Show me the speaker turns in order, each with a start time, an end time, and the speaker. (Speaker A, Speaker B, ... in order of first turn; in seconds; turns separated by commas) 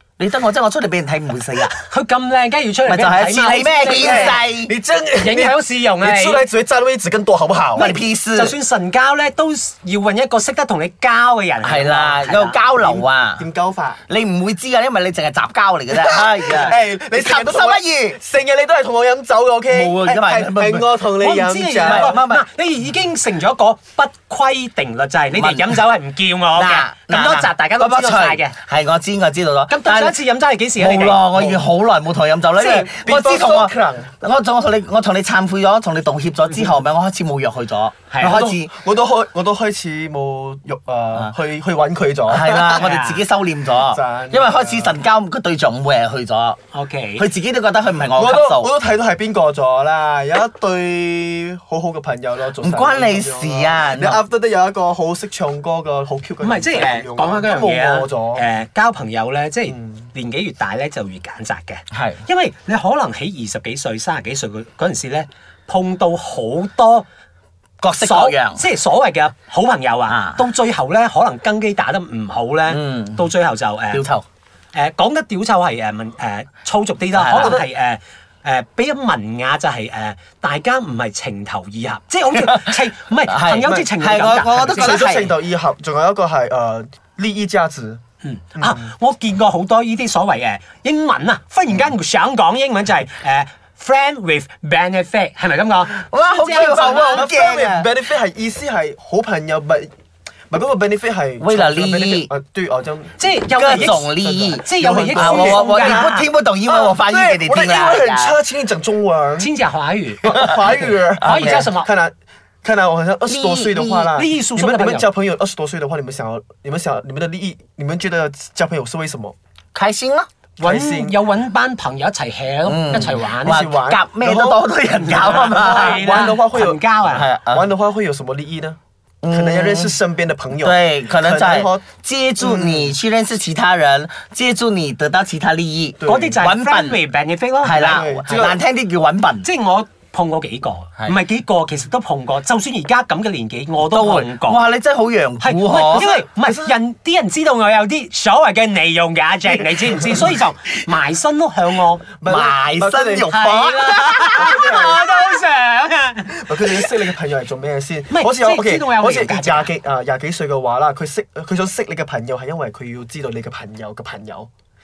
Speaker A: 0.2-1.7, Speaker B: 1.8-4.4, Speaker A: 2.9-4.7, Speaker C: 3.7-7.9, Speaker B: 5.2-6.4, Speaker A: 7.8-8.5, Speaker B: 7.8-12.6, Speaker A: 11.6-13.4, Speaker C: 12.7-14.0, Speaker A: 14.1-18.2, Speaker C: 15.9-22.1, Speaker A: 19.7-20.9, Speaker B: 21.2-28.5, Speaker A: 21.8-22.4, Speaker A: 25.3-25.8, Speaker A: 26.5-30.2, Speaker B: 29.7-31.2, Speaker A: 30.8-38.7, Speaker C: 31.3-31.7, Speaker C: 32.5-34.1, Speaker B: 38.1-38.5, Speaker C: 38.2-42.8, Speaker A: 42.3-46.6, Speaker B: 42.7-43.2, Speaker C: 43.8-45.0, Speaker B: 46.7-47.3, Speaker A: 47.2-48.7, Speaker C: 48.1-58.4, Speaker A: 52.6-54.2, Speaker B: 56.4-67.0, Speaker C: 59.7-60.0, Speaker A: 61.9-62.2, Speaker A: 67.8-68.6, Speaker B: 68.0-74.0, Speaker A: 70.1-70.4, Speaker A: 72.7-73.3, Speaker A: 73.9-74.2, Speaker B: 74.7-85.0, Speaker A: 77.1-77.6, Speaker C: 77.4-77.6, Speaker A: 82.3-85.3, Speaker C: 83.6-83.9, Speaker C: 84.7-88.0, Speaker B: 88.2-97.3, Speaker C: 88.5-88.9, Speaker A: 95.9-97.9, Speaker C: 96.4-99.9, Speaker C: 100.5-109.5, Speaker A: 101.4-102.3, Speaker B: 103.2-104.0, Speaker A: 103.5-108.4, Speaker B: 104.6-106.1, Speaker B: 109.4-110.4, Speaker C: 110.2-119.3, Speaker A: 110.4-111.7, Speaker B: 111.2-111.9, Speaker A: 113.2-114.1, Speaker B: 114.1-115.1, Speaker A: 119.7-120.3, Speaker C: 120.6-121.2, Speaker B: 120.6-123.7, Speaker A: 122.6-126.3, Speaker C: 123.4-126.8, Speaker B: 124.9-127.3, Speaker A: 127.1-127.7, Speaker C: 127.5-128.8, Speaker A: 129.2-129.9, Speaker C: 129.3-131.8, Speaker A: 130.5-137.0, Speaker C: 132.4-132.9, Speaker C: 136.0-136.4, Speaker B: 136.0-138.1, Speaker A: 137.6-139.5, Speaker C: 137.7-138.6, Speaker B: 139.4-144.6, Speaker A: 143.8-146.1, Speaker B: 145.4-152.1, Speaker C: 145.8-146.7, Speaker C: 152.2-153.5, Speaker A: 152.2-154.6, Speaker B: 153.3-156.4, Speaker C: 154.3-155.1, Speaker C: 156.3-164.5, Speaker B: 158.1-159.7